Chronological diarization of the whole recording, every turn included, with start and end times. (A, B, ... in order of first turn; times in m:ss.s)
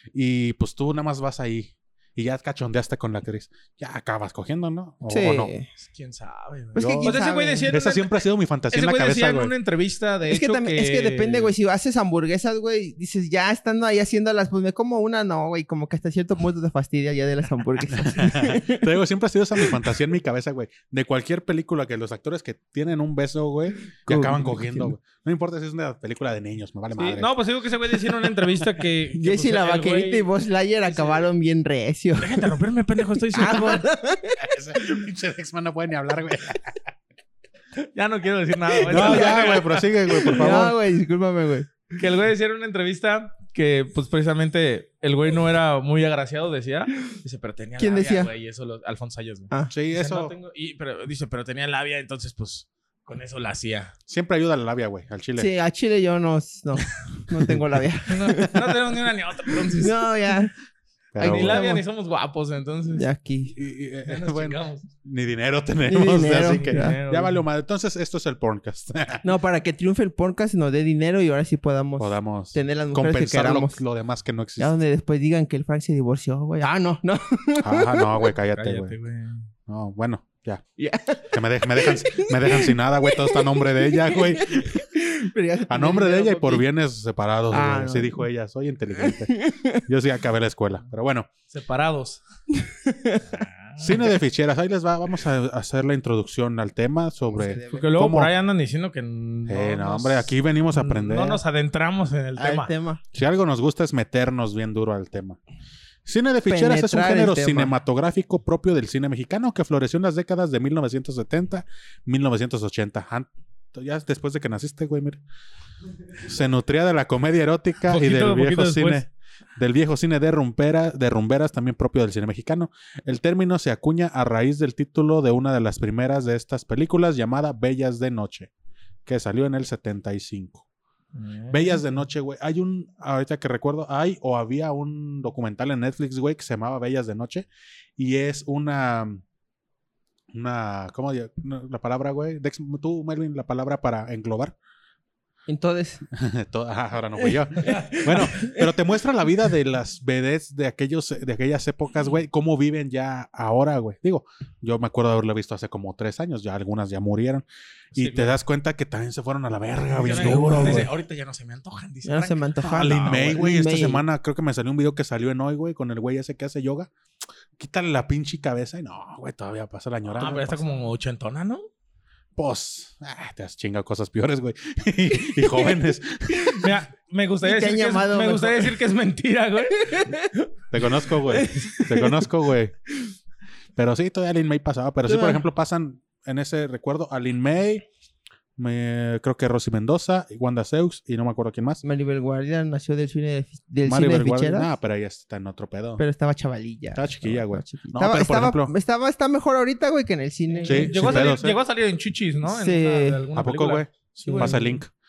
0:00.1-0:05.5 A
0:05.1-0:05.7 B
0:05.8-0:08.2 C
0:06.8-0:09.5 A
0:06.8-0:07.7 B
0:08.7-0:11.5 C
0:10.3-0:18.9 B
0:17.9-0:27.3 A
0:24.1-0:24.9 B
0:27.0-0:30.3 C
0:29.2-0:32.6 B
0:30.9-0:31.3 C
0:32.2-0:33.9 C
0:33.3-0:34.5 B
0:34.4-0:36.8 A
0:37.8-0:39.9 C
0:38.7-0:39.7 B
0:38.9-0:40.7 A
0:40.2-0:41.9 B
0:42.0-0:53.9 C
0:47.8-0:48.3 B
0:49.7-0:50.3 A
0:54.1-0:55.5 A
0:55.4-0:59.0 B
0:58.1-1:00.0 C
0:59.5-1:00.5 B
1:01.1-1:01.6 A
1:01.2-1:03.1 C
1:01.2-1:01.8 B
1:02.9-1:03.6 B
1:03.6-1:09.2 A
1:04.1-1:04.9 C
1:05.9-1:07.0 B
1:06.4-1:07.4 C
1:09.2-1:13.8 B
1:12.0-1:14.7 A
1:14.6-1:18.3 B
1:17.6-1:19.0 A
1:18.6-1:19.5 C
1:19.7-1:20.6 A
1:20.8-1:26.6 B
1:21.3-1:24.8 A
1:25.7-1:31.3 A
1:27.5-1:28.3 B
1:29.0-1:29.8 B
1:31.5-1:32.2 C
1:32.8-1:33.3 B
1:33.2-1:34.1 C
1:33.8-1:38.3 A
1:37.3-1:37.9 B
1:37.7-1:42.7 C
1:39.5-1:41.4 A
1:42.4-1:43.0 B
1:43.1-1:45.4 A
1:46.0-1:55.2 A
1:46.5-1:47.7 B
1:56.2-2:08.5 A
1:57.9-1:59.0 C
2:09.1-2:10.6 A
2:11.1-2:11.8 C
2:11.5-2:19.2 A
2:20.3-2:24.6 A
2:25.5-2:26.0 B
2:26.1-2:40.9 A
2:27.6-2:28.7 B
2:27.6-2:27.9 C
2:37.9-2:38.4 C
2:40.0-2:43.4 C
2:40.2-2:40.9 B
2:42.1-2:44.0 B
2:42.7-2:46.9 A
2:47.6-2:50.7 A
2:50.1-2:51.7 C
2:52.4-2:56.7 A
2:55.2-2:55.8 B
2:56.5-3:00.1 C
2:57.4-2:58.8 B
2:59.7-3:00.3 B
3:00.7-3:02.7 A
3:01.3-3:02.3 B
3:03.8-3:07.9 A
3:05.1-3:05.4 B
3:08.6-3:11.8 A
3:11.8-3:14.7 B
3:13.8-3:16.0 A
3:16.0-3:21.4 B
3:17.0-3:18.7 A
3:20.5-3:24.8 C
3:20.6-3:21.6 A
3:22.4-3:23.3 B
3:23.4-3:24.9 A
3:24.2-3:24.7 B